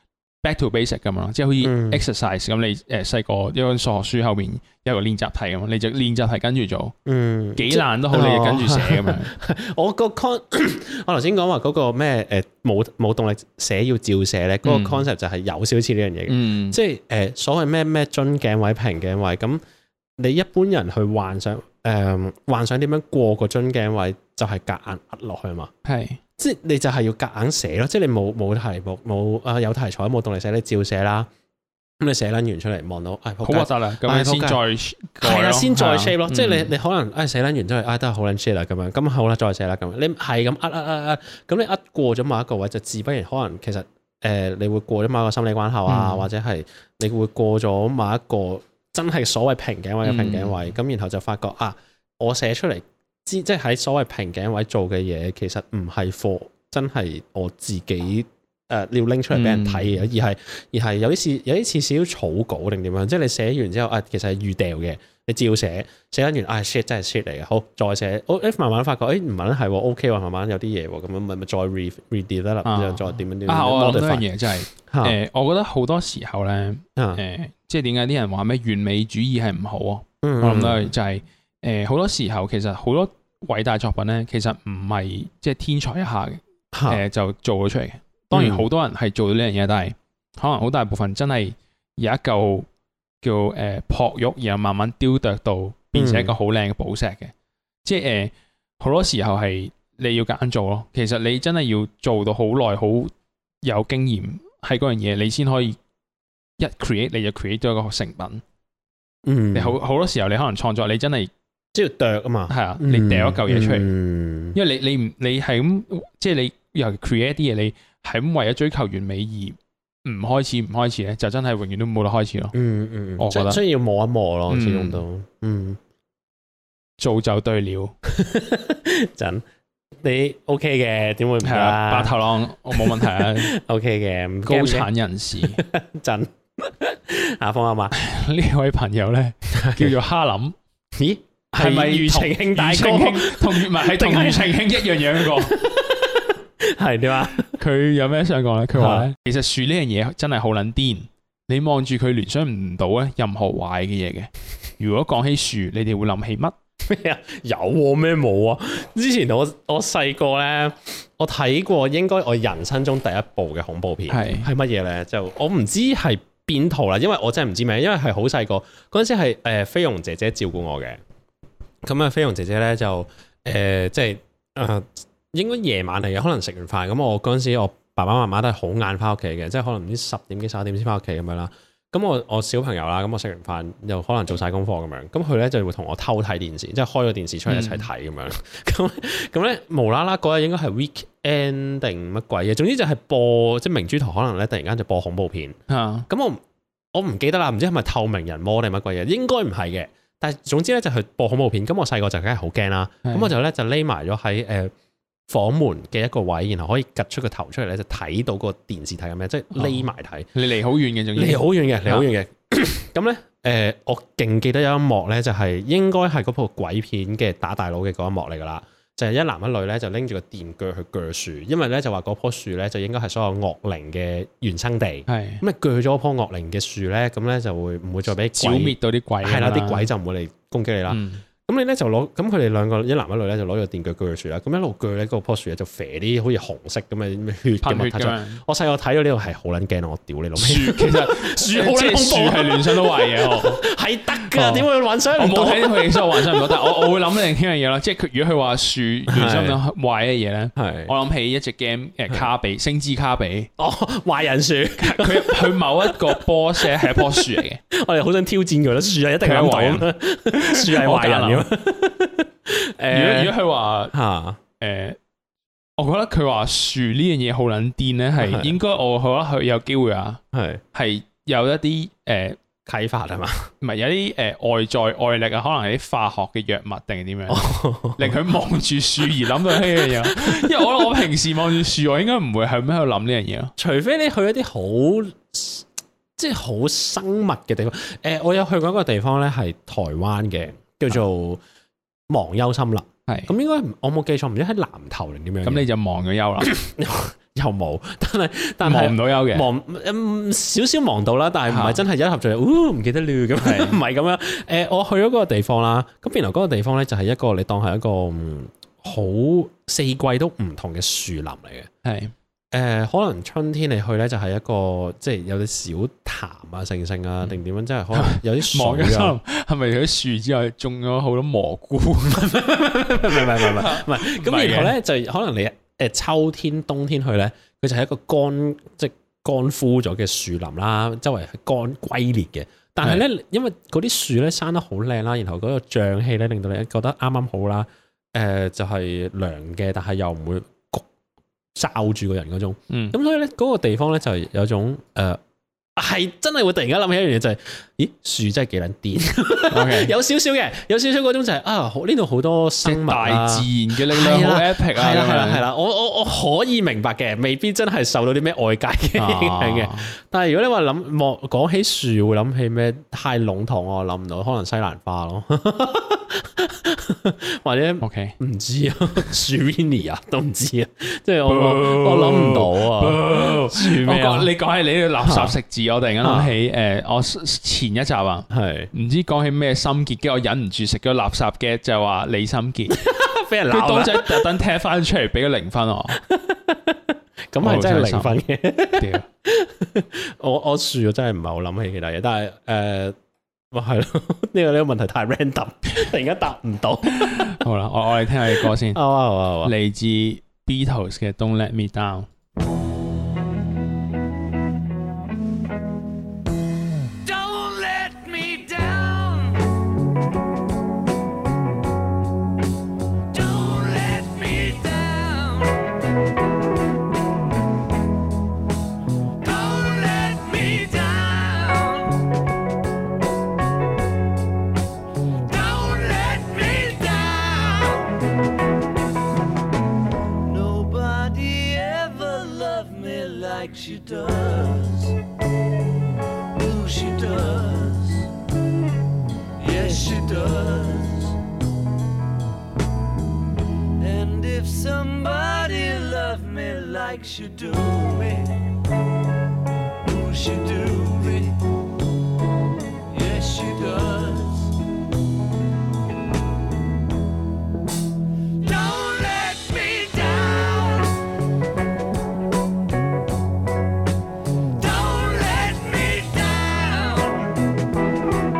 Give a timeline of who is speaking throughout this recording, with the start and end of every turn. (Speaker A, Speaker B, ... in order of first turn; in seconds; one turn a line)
Speaker A: 0.4-6.9
Speaker B: 1.6-2.0
Speaker B: 7.0-19.6
Speaker A: 7.5-9.3
Speaker A: 14.6-15.1
Speaker A: 16.3-16.8
Speaker B: 20.2-25.7
Speaker A: 25.8-26.2
Speaker B: 26.4-31.3
Speaker B: 32.0-34.6
Speaker A: 33.4-36.7
Speaker B: 35.2-75.2
Speaker A: 45.9-46.2
Speaker A: 50.0-50.5
Speaker A: 59.3-60.0
Speaker A: 72.6-92.7
Speaker B: 77.0-77.2
Speaker B: 80.2-80.8
Speaker B: 86.7-87.0
Speaker B: 88.3-88.7
Speaker A: 93.2-97.3
Speaker B: 95.9-96.3
Speaker A: 97.8-103.1
Speaker A: 103.6-105.8
Speaker A: 106.6-108.4
Speaker B: 109.2-109.8
Speaker A: 109.5-111.3
Speaker B: 111.7-114.6
Speaker A: 112.5-113.9
Speaker A: 114.5-122.5
Speaker B: 122.5-125.8
Speaker A: 123.2-123.6
Speaker A: 124.5-125.0
Speaker A: 127.0-127.9
Speaker B: 128.1-129.4
Speaker B: 130.0-132.2
Speaker A: 131.4-133.5
Speaker B: 132.7-137.9
Speaker A: 134.4-135.6
Speaker A: 137.9-140.6
Speaker B: 139.5-139.9
Speaker B: 140.9-147.6
Speaker A: 141.5-145.6
Speaker A: 147.4-156.5
Speaker B: 148.7-149.1
Speaker B: 156.8-171.0
Speaker A: 164.1-164.5
Speaker B: 171.8-195.6
Speaker A: 187.5-187.9
Speaker A: 195.7-196.1
Speaker B: 196.1-196.4
Speaker B: 196.9-204.7
Speaker A: 203.0-203.3
Speaker B: 205.3-210.3
Speaker A: 209.5-209.8
Speaker A: 210.3-212.1
Speaker B: 211.1-246.9
Speaker A: 225.1-225.4
Speaker A: 228.3-229.9
Speaker A: 230.9-231.2
Speaker A: 237.6-238.4
Speaker A: 240.4-243.6
Speaker A: 244.2-253.5
Speaker B: 249.1-249.6
Speaker B: 250.6-250.9
Speaker B: 253.6-263.4
Speaker A: 254.8-257.6
Speaker A: 259.2-261.5
Speaker A: 262.9-263.9
Speaker B: 263.9-264.4
Speaker A: 264.6-265.0
Speaker A: 265.8-270.2
Speaker B: 268.2-268.6
Speaker B: 270.3-270.6
Speaker A: 270.7-272.4
Speaker B: 272.6-273.5
Speaker A: 273.6-283.5
Speaker B: 277.3-278.2
Speaker B: 279.4-280.8
Speaker B: 283.6-285.6
Speaker B: 286.2-291.4
Speaker B: 292.1-295.7
Speaker A: 293.1-293.3
Speaker A: 295.4-296.5
Speaker B: 296.4-311.7
Speaker A: 298.6-299.5
Speaker A: 301.5-301.8
Speaker A: 303.4-303.8
Speaker A: 311.8-312.1
Speaker B: 312.5-319.2
Speaker A: 317.9-322.4
Speaker B: 322.1-340.9
Speaker A: 323.0-324.7
Speaker B: 341.5-345.2
Speaker A: 342.7-342.9
Speaker B: 345.8-374.3
Speaker A: 349.5-349.9
Speaker A: 352.6-355.4
Speaker A: 359.0-359.9
Speaker A: 367.8-368.1
Speaker A: 371.2-382.8
Speaker B: 375.0-375.4
Speaker B: 376.0-376.3
Speaker B: 378.3-378.7
Speaker B: 382.7-384.3
Speaker A: 383.5-386.0
Speaker B: 386.0-392.9
Speaker A: 387.4-388.2
Speaker A: 388.8-389.1
Speaker B: 393.5-397.3
Speaker A: 396.9-398.8
Speaker B: 398.4-399.5
Speaker A: 399.4-402.1
Speaker C: 407.0-409.4
Speaker C: 413.1-415.6
Speaker C: 419.2-422.0
Speaker C: 425.2-428.0
Speaker C: 430.2-435.0
Speaker C: 436.4-438.1
Speaker C: 439.4-441.2
Speaker C: 443.8-448.4
Speaker C: 449.8-451.4
Speaker C: 452.9-454.5
Speaker C: 458.4-461.0
Speaker C: 464.6-467.3